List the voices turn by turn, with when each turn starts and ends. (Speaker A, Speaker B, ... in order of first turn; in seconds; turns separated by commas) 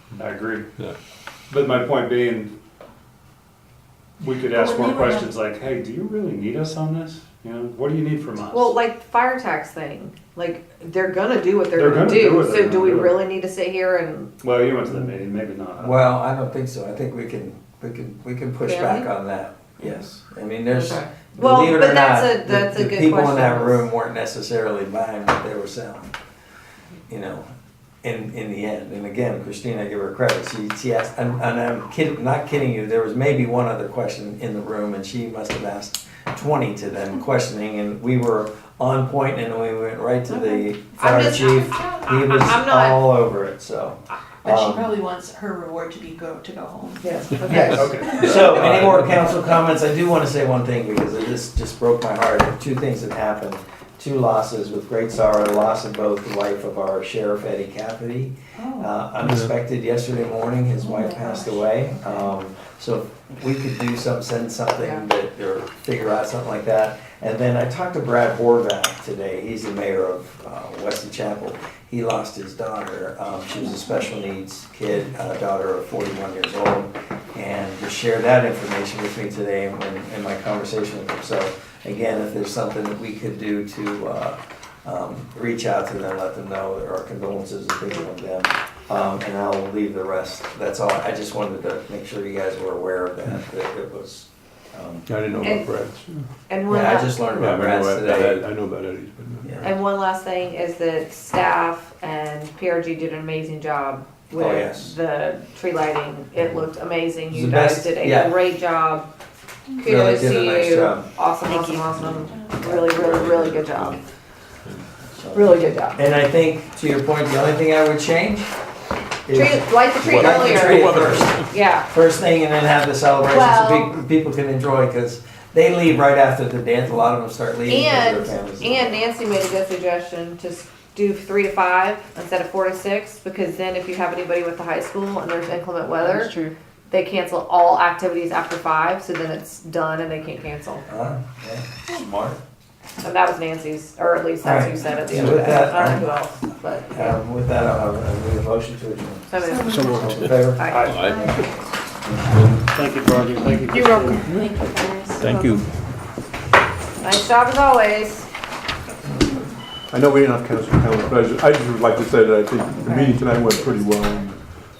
Speaker A: 0.2-0.7, Speaker A: 1.5-2.5, Speaker A: 4.2-8.7, Speaker B: 4.5-5.3, Speaker C: 8.5-14.3, Speaker A: 11.8-13.2, Speaker A: 14.4-16.1, Speaker D: 15.8-26.1, Speaker C: 18.6-19.1, Speaker C: 20.7-23.9, Speaker D: 27.1-27.5, Speaker D: 28.0-44.9, Speaker B: 40.3-40.8, Speaker C: 41.0-43.1, Speaker B: 44.4-47.0, Speaker C: 47.0-47.9, Speaker D: 47.4-95.1, Speaker A: 47.7-48.8, Speaker B: 48.0-48.4, Speaker E: 48.4-48.7, Speaker B: 58.6-58.9, Speaker B: 60.8-62.2, Speaker C: 64.8-65.0, Speaker E: 95.1-96.3, Speaker C: 95.4-95.7, Speaker C: 96.5-97.3, Speaker D: 96.7-98.4, Speaker E: 97.3-99.7, Speaker C: 99.6-109.1, Speaker D: 104.4-104.9, Speaker D: 107.3-108.3, Speaker C: 109.8-114.0, Speaker D: 109.8-111.1, Speaker B: 111.4-112.5, Speaker D: 112.6-113.6, Speaker D: 115.2-118.5, Speaker C: 115.3-116.0, Speaker D: 119.3-129.0, Speaker C: 119.3-121.0, Speaker E: 120.0-121.5, Speaker C: 121.5-121.9, Speaker C: 123.3-123.9, Speaker C: 127.7-136.3, Speaker B: 136.0-136.6, Speaker C: 136.9-140.8, Speaker D: 140.9-142.4, Speaker C: 143.0-147.2, Speaker D: 144.4-146.1, Speaker D: 146.9-149.3, Speaker C: 149.3-150.0, Speaker B: 149.4-150.1, Speaker D: 149.9-150.7, Speaker C: 150.6-151.4, Speaker A: 150.7-151.1, Speaker E: 150.8-151.3, Speaker B: 150.9-151.6, Speaker A: 152.7-154.4, Speaker B: 154.2-155.2, Speaker E: 155.2-155.6, Speaker C: 157.0-158.3, Speaker E: 159.9-164.4, Speaker C: 162.8-163.5